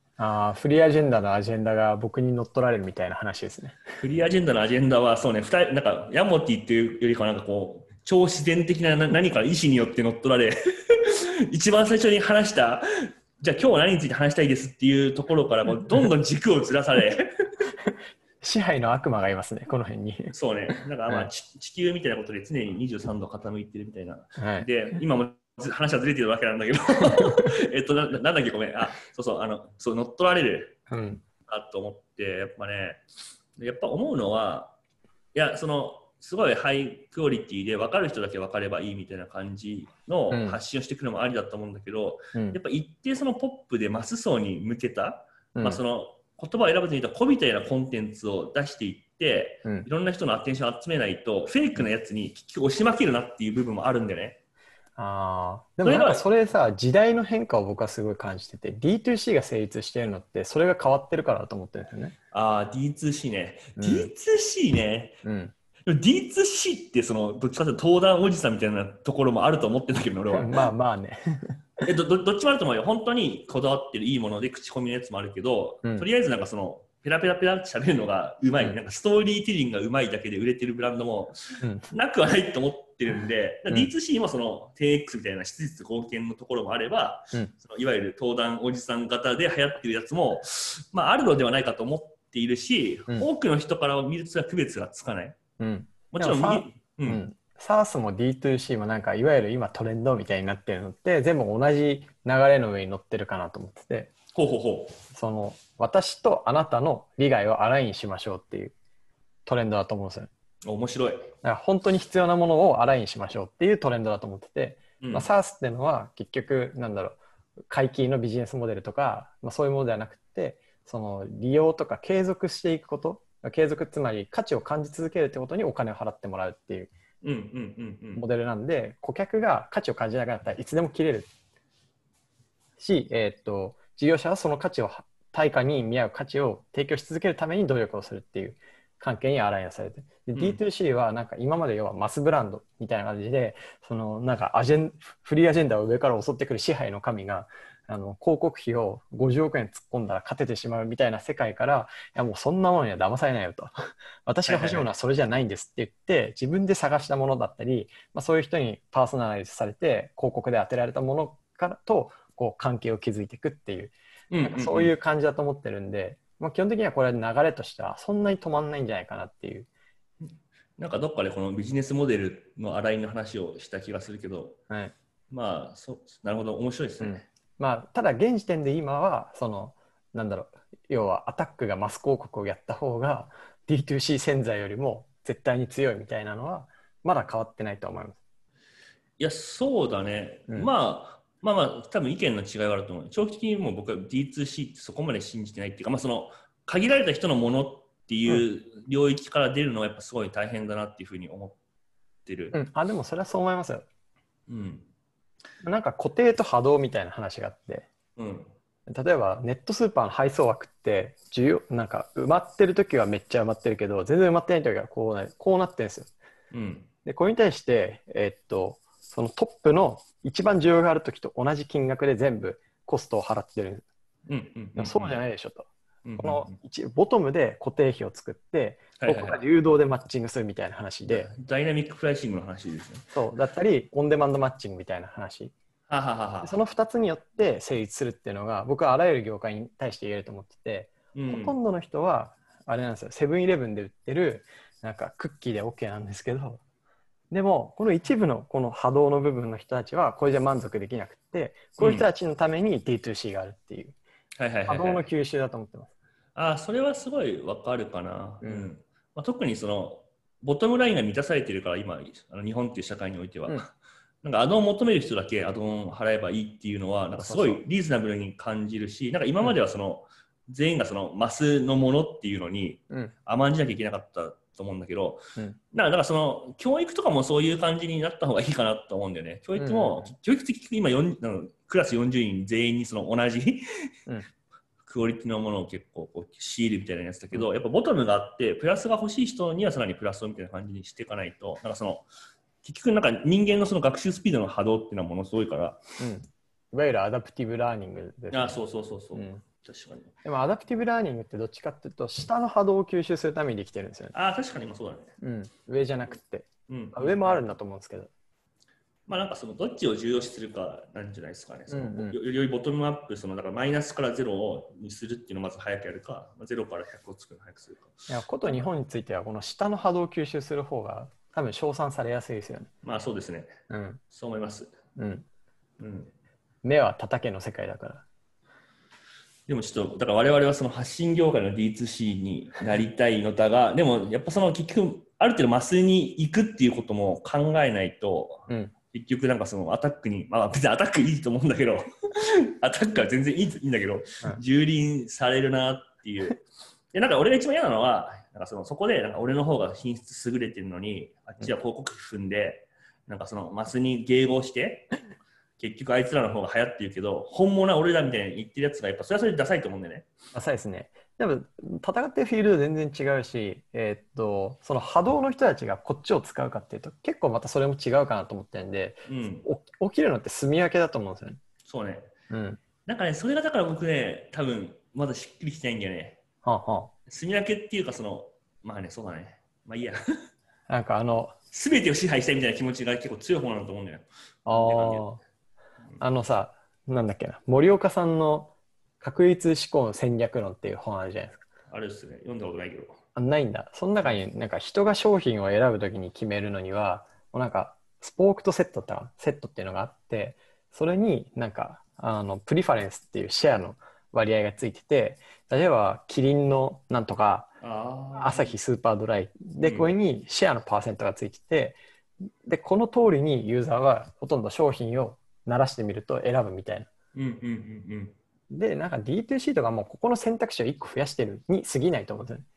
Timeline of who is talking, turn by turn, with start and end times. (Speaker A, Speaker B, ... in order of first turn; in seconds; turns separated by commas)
Speaker A: 0.2-3.8, Speaker B: 4.0-12.9, Speaker B: 13.4-17.3, Speaker A: 18.4-20.3, Speaker B: 20.3-30.8, Speaker A: 24.4-24.7, Speaker A: 30.9-31.2, Speaker B: 31.5-33.0, Speaker B: 33.6-34.8, Speaker B: 35.3-54.4, Speaker A: 40.3-40.6, Speaker A: 42.3-42.6, Speaker A: 45.5-45.8, Speaker A: 55.0-62.2, Speaker B: 55.8-56.2, Speaker B: 62.3-65.2, Speaker A: 63.8-64.1, Speaker A: 65.2-65.5, Speaker B: 65.9-70.7, Speaker A: 70.3-71.5, Speaker B: 71.8-95.4, Speaker A: 81.6-81.9, Speaker A: 95.6-104.1, Speaker B: 96.1-97.2, Speaker B: 104.3-105.0, Speaker A: 105.1-108.8, Speaker A: 109.5-110.3, Speaker B: 110.7-111.3, Speaker A: 111.4-126.9, Speaker B: 115.0-115.3, Speaker B: 127.2-128.2, Speaker A: 128.2-131.3, Speaker A: 132.8-153.7, Speaker A: 154.2-169.7, Speaker B: 154.5-154.9, Speaker B: 164.3-164.9, Speaker B: 170.8-174.6, Speaker B: 175.3-177.3, Speaker A: 177.0-188.2, Speaker B: 189.2-201.6, Speaker B: 202.3-202.6, Speaker A: 202.5-203.8, Speaker B: 204.5-204.9, Speaker A: 205.6-207.9, Speaker B: 208.2-208.5, Speaker A: 208.9-216.1, Speaker B: 216.5-216.9, Speaker A: 217.1-223.9, Speaker B: 224.3-225.2, Speaker A: 224.8-225.7, Speaker B: 226.1-226.6, Speaker A: 226.2-231.3, Speaker B: 229.0-229.4, Speaker B: 231.1-233.1, Speaker A: 233.1-235.5, Speaker B: 235.9-236.6, Speaker A: 236.4-246.6, Speaker B: 241.1-241.6, Speaker A: 247.3-254.0, Speaker B: 251.8-252.1, Speaker B: 254.4-255.1, Speaker A: 254.7-255.9, Speaker B: 256.4-275.2, Speaker A: 258.4-258.7, Speaker A: 267.1-267.6, Speaker B: 275.7-283.6, Speaker A: 279.6-280.1, Speaker B: 284.9-292.1, Speaker B: 292.6-295.8, Speaker A: 296.0-298.6, Speaker B: 298.3-300.1, Speaker A: 299.1-299.4, Speaker A: 300.2-304.1, Speaker B: 304.1-305.1, Speaker A: 305.2-308.1, Speaker B: 306.7-307.4, Speaker B: 309.1-318.6, Speaker A: 311.7-312.2, Speaker A: 318.1-322.7, Speaker B: 322.8-323.5, Speaker A: 323.7-324.0, Speaker B: 324.1-324.7, Speaker A: 325.0-325.3, Speaker B: 325.8-326.1, Speaker A: 326.6-328.1, Speaker B: 329.5-346.4, Speaker B: 346.9-354.9, Speaker B: 355.6-360.1, Speaker A: 360.3-371.4, Speaker B: 369.1-369.5, Speaker B: 371.7-372.1, Speaker A: 372.3-372.6, Speaker B: 372.9-376.2, Speaker A: 376.4-376.9, Speaker B: 377.1-380.0, Speaker A: 380.7-381.4, Speaker B: 381.5-385.1, Speaker A: 384.5-385.2, Speaker A: 386.0-391.4, Speaker B: 391.7-393.0, Speaker A: 393.1-407.5, Speaker B: 407.6-408.5, Speaker A: 408.1-411.8, Speaker B: 409.6-409.9, Speaker A: 412.4-416.9, Speaker B: 417.1-418.1, Speaker A: 418.5-422.5